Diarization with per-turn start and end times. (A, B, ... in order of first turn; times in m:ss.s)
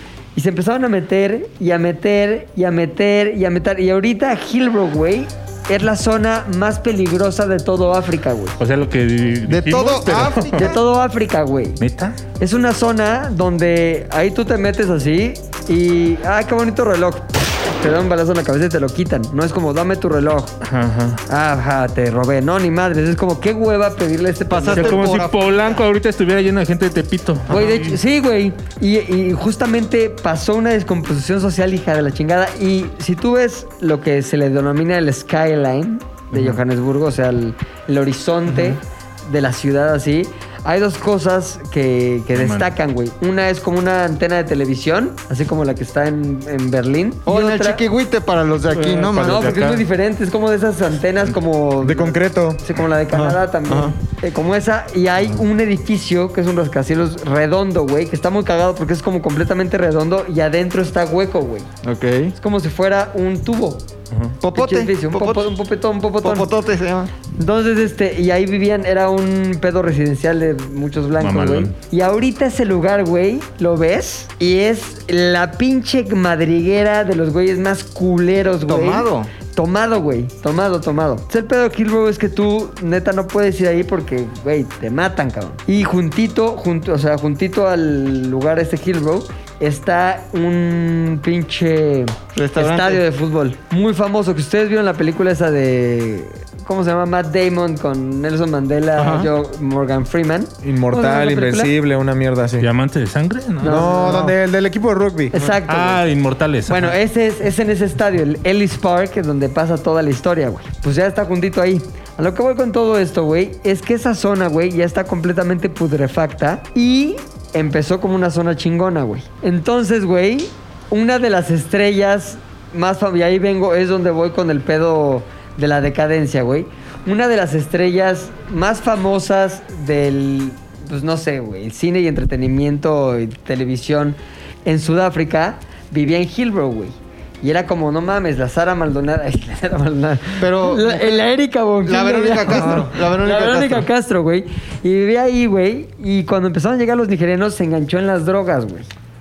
0:00.4-0:08.6 A
0:08.6-0:10.7 B
0:09.5-0:10.8 C
0:10.6-0:11.8 A
0:11.8-0:12.2 B
0:12.4-0:20.6 A
0:20.6-0:21.2 B
0:21.3-0:25.1 A
0:24.5-0:25.8 C
0:24.7-0:28.0 B
0:27.5-0:47.8 A
0:36.3-0:36.6 B
0:38.5-0:38.8 B
0:42.3-0:42.7 B
0:47.3-0:49.6 C
0:48.7-0:49.8 B
0:49.2-1:01.7 A
0:51.8-0:52.6 D
0:53.1-0:54.0 C
1:01.8-1:02.3 C
1:02.4-1:03.9 A
1:04.4-1:05.5 C
1:04.5-1:06.5 A
1:06.2-1:07.1 C
1:07.4-1:41.7 A
1:11.2-1:11.7 B
1:18.7-1:19.3 C
1:32.3-1:33.0 C
1:39.0-1:39.3 C
1:40.6-1:42.7 D
1:42.6-1:43.9 B
1:43.6-1:44.4 A
1:43.6-1:45.6 D
1:45.3-1:46.0 A
1:45.7-1:47.0 B
1:46.7-2:28.9 A
2:20.4-2:21.3 C
2:21.8-2:23.9 C